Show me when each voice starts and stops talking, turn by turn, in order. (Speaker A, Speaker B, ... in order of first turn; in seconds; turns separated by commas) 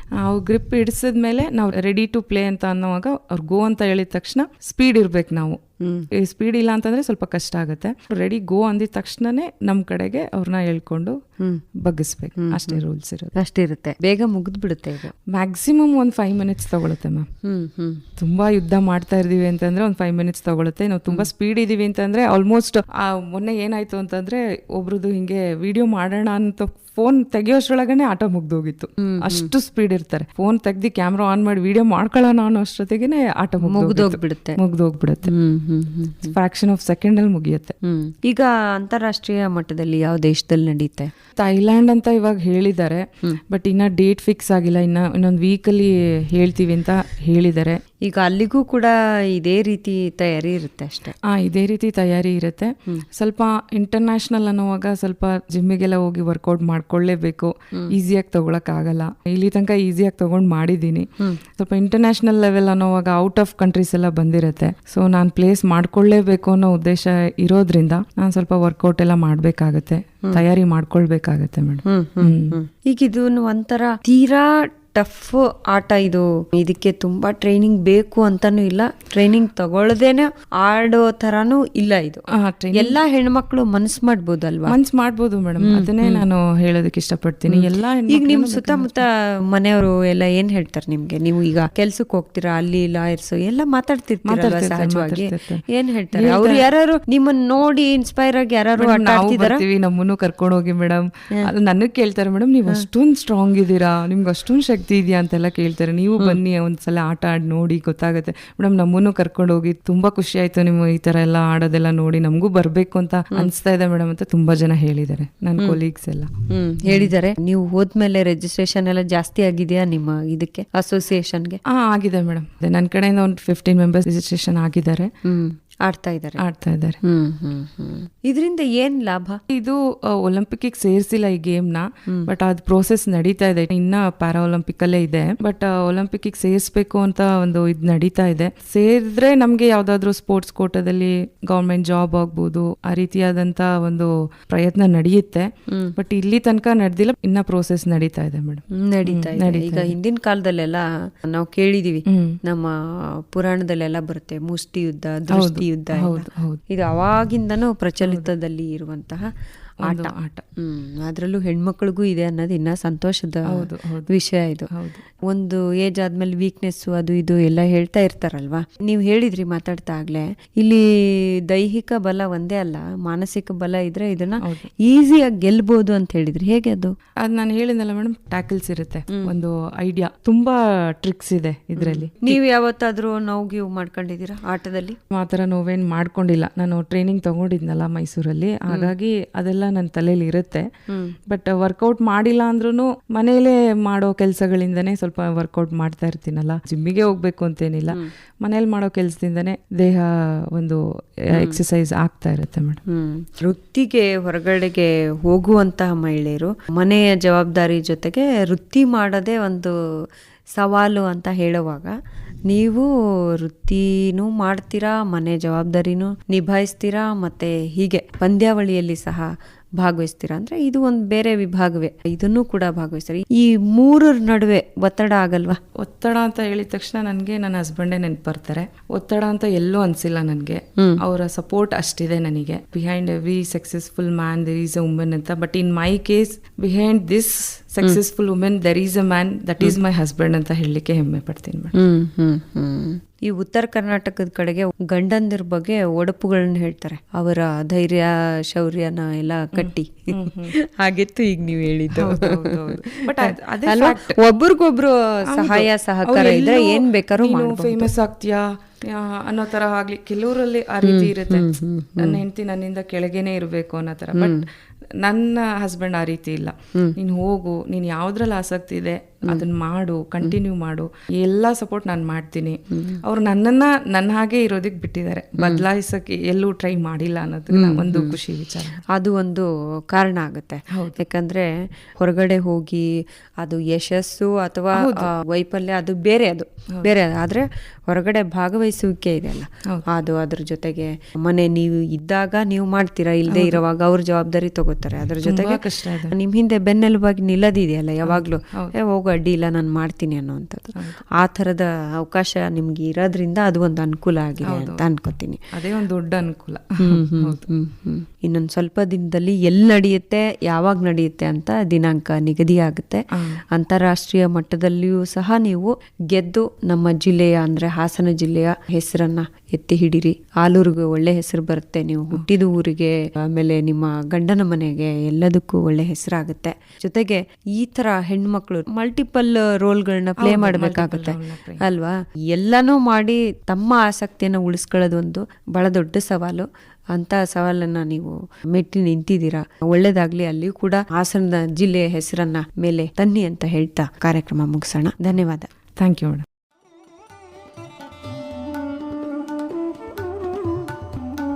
Speaker A: 0.2-5.6, Speaker B: 5.8-6.1, Speaker A: 6.1-11.2, Speaker A: 11.8-13.3, Speaker B: 12.4-12.8, Speaker B: 13.3-15.1, Speaker A: 15.3-17.3, Speaker B: 17.4-18.0, Speaker A: 18.2-35.3, Speaker B: 29.0-29.5, Speaker B: 33.6-34.6, Speaker B: 35.2-36.3, Speaker A: 36.3-37.8, Speaker B: 37.8-41.1, Speaker A: 41.4-47.8, Speaker B: 48.0-51.1, Speaker A: 51.2-72.6, Speaker B: 71.8-84.8, Speaker A: 82.3-83.0, Speaker A: 84.7-89.0, Speaker B: 85.6-86.2, Speaker B: 87.5-99.6, Speaker A: 94.2-96.6, Speaker A: 98.8-116.3, Speaker B: 116.5-121.6, Speaker A: 116.8-117.1, Speaker A: 121.7-125.1, Speaker B: 125.2-126.4, Speaker A: 126.4-127.0, Speaker B: 127.0-129.4, Speaker A: 129.5-149.9, Speaker B: 148.8-159.3, Speaker A: 152.1-152.4, Speaker A: 155.3-156.6, Speaker A: 158.0-158.3, Speaker B: 159.8-164.7, Speaker A: 159.8-160.4, Speaker A: 163.5-164.1, Speaker A: 164.7-165.0, Speaker B: 165.3-176.9, Speaker A: 174.4-174.7, Speaker A: 177.2-182.4, Speaker B: 181.8-185.0, Speaker A: 185.1-190.7, Speaker B: 190.9-191.1, Speaker A: 191.3-202.8, Speaker B: 201.3-201.6, Speaker B: 202.9-209.7, Speaker B: 210.6-211.9, Speaker B: 212.5-225.6, Speaker A: 225.8-241.7, Speaker B: 241.7-257.9, Speaker A: 249.5-250.5, Speaker A: 251.9-254.2, Speaker A: 255.3-264.4, Speaker B: 260.8-262.2, Speaker B: 264.1-264.4, Speaker A: 265.0-278.8, Speaker B: 272.7-273.0, Speaker B: 275.4-275.6, Speaker B: 277.5-278.2, Speaker B: 278.9-282.9, Speaker A: 280.7-281.0, Speaker B: 283.4-305.4, Speaker A: 284.7-285.1, Speaker A: 293.3-293.6, Speaker A: 295.2-296.1, Speaker A: 298.0-298.7, Speaker A: 300.8-301.0, Speaker A: 304.4-304.9, Speaker A: 305.5-307.4, Speaker B: 306.8-313.0, Speaker A: 313.1-313.4, Speaker B: 313.5-345.5, Speaker A: 330.2-331.6, Speaker A: 345.8-346.2